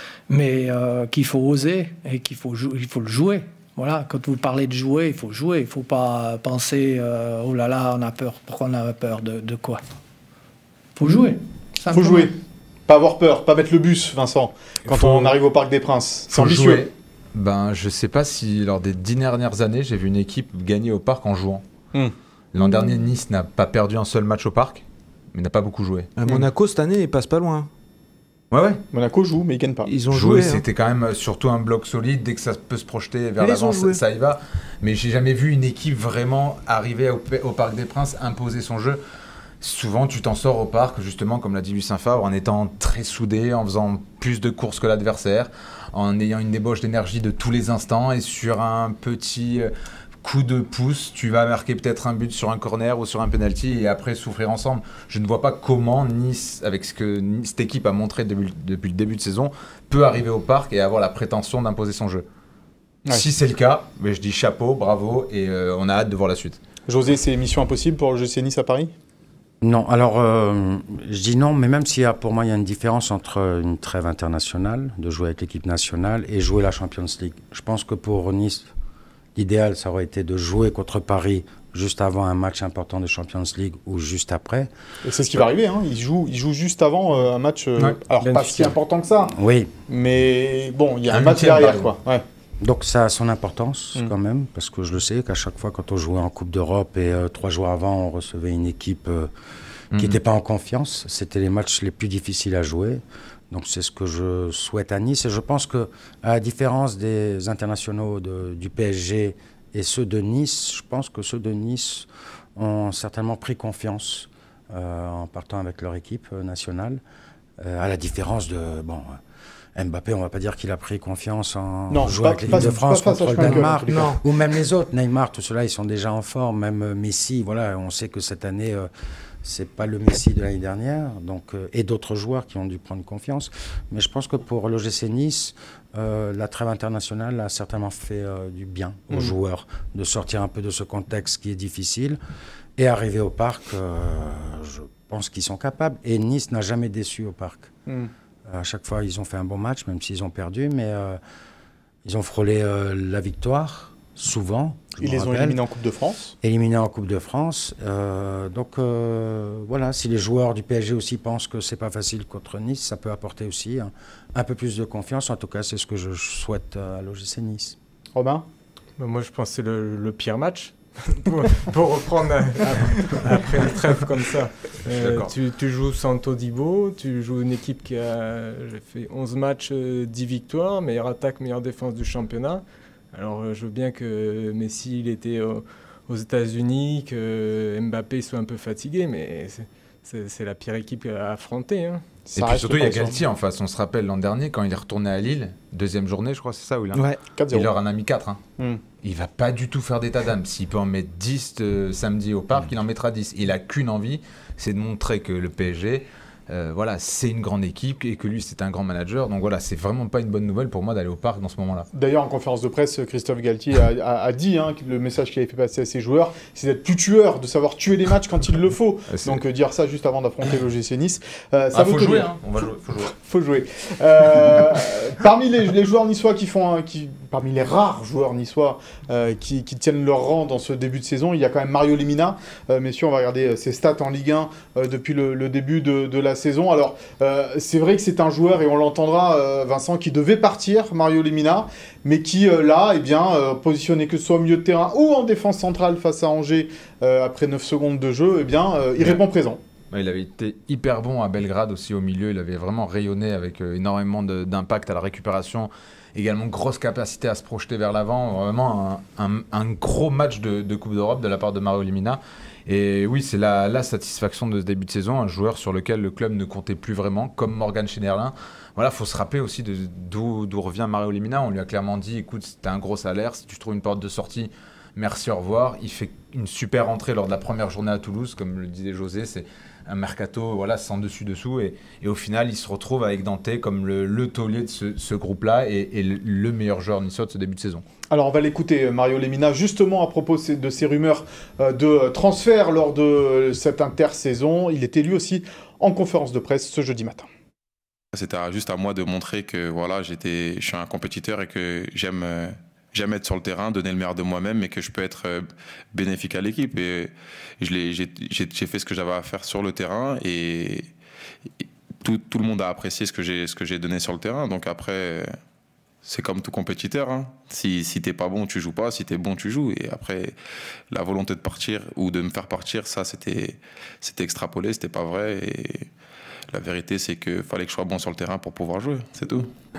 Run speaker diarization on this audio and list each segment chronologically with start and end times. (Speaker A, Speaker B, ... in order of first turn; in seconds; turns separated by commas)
Speaker A: 0.3-9.8, Speaker A: 10.9-12.3, Speaker B: 11.9-12.3, Speaker B: 12.9-16.9, Speaker C: 14.9-15.3, Speaker C: 16.3-21.6, Speaker C: 22.5-26.2, Speaker D: 26.1-27.7, Speaker C: 28.5-28.8, Speaker B: 28.9-29.9, Speaker D: 29.8-30.6, Speaker C: 30.1-39.0, Speaker D: 33.4-34.0, Speaker C: 39.6-49.7, Speaker C: 50.2-62.2, Speaker C: 63.1-66.6, Speaker B: 66.9-68.9, Speaker E: 69.6-78.7, Speaker E: 79.3-84.7, Speaker B: 85.0-89.3, Speaker F: 88.2-88.7, Speaker E: 89.3-89.7, Speaker B: 89.9-92.2, Speaker C: 91.1-91.9, Speaker E: 92.6-99.3, Speaker C: 99.9-100.2, Speaker E: 99.9-117.0, Speaker E: 117.6-119.2, Speaker E: 119.8-128.9, Speaker B: 121.9-124.1, Speaker D: 123.4-124.2, Speaker E: 129.4-142.2, Speaker E: 142.8-147.7, Speaker E: 148.5-151.2, Speaker E: 152.0-155.6, Speaker B: 155.0-156.3, Speaker E: 156.4-167.8, Speaker B: 168.2-168.4, Speaker F: 169.0-192.0, Speaker B: 172.7-173.1, Speaker C: 174.9-175.3, Speaker B: 192.2-193.2, Speaker C: 192.4-198.4, Speaker D: 196.9-197.2, Speaker B: 197.4-197.7, Speaker C: 199.0-211.9, Speaker B: 211.9-249.6, Speaker C: 219.1-219.4, Speaker C: 221.7-223.1, Speaker C: 249.9-287.8, Speaker B: 288.1-297.3, Speaker G: 298.1-310.9, Speaker G: 311.6-315.4, Speaker G: 316.0-320.4, Speaker G: 320.9-325.9, Speaker G: 326.5-329.5